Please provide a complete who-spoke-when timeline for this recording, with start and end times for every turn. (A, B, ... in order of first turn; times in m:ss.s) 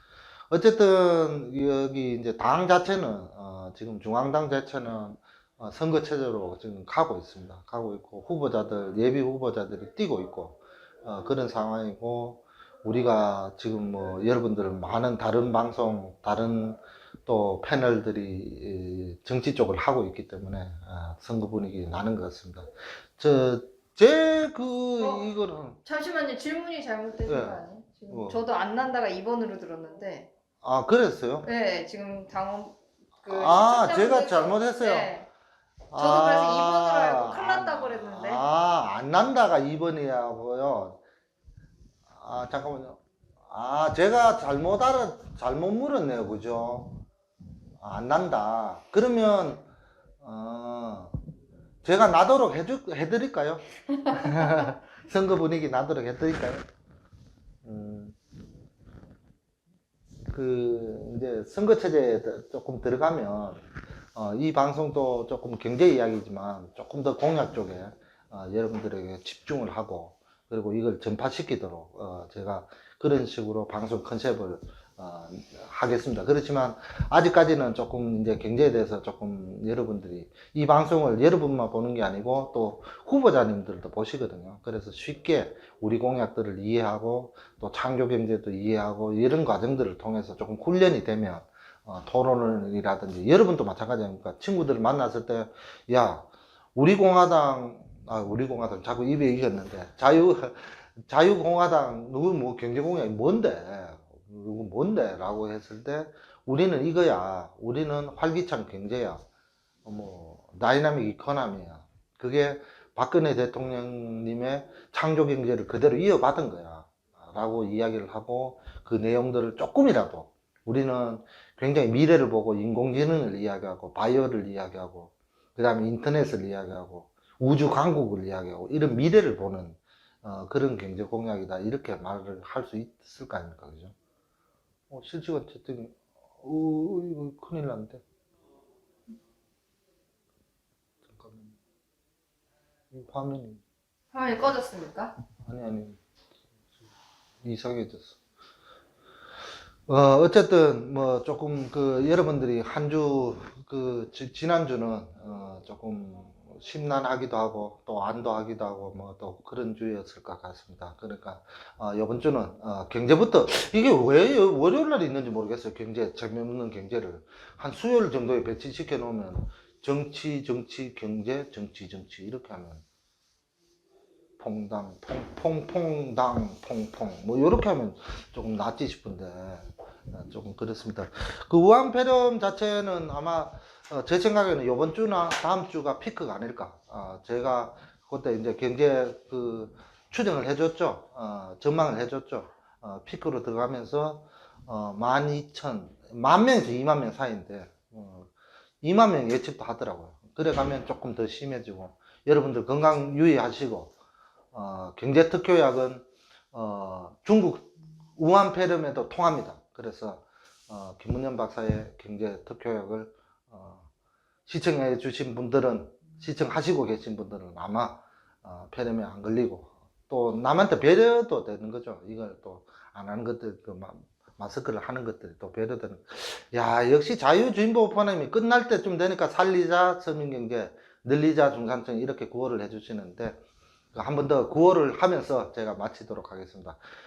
0:00.5-0:25.8 A
0:25.0-0:25.2 B
0:25.8-0:30.3 B
0:27.3-0:28.4 A
0:30.6-0:31.5 A
0:31.4-0:35.3 B
0:33.3-0:35.1 A
0:35.9-0:41.0 A
0:35.9-0:38.5 B
0:42.1-0:47.0 A
0:47.8-0:49.7 A
0:50.2-0:51.2 A
0:51.8-0:56.7 A
0:57.6-0:58.2 A
1:00.3-1:49.2 A
1:49.8-2:13.9 A
2:14.9-2:18.0 A
2:21.1-2:21.6 A
2:22.9-2:23.6 A
2:24.1-2:25.2 B
2:25.4-2:26.0 A
2:27.4-2:28.2 A
2:29.9-2:52.8 A
2:54.4-3:18.3 A
3:18.8-3:23.9 A
3:24.5-3:33.9 A
3:34.5-3:53.4 A
3:53.9-3:56.8 A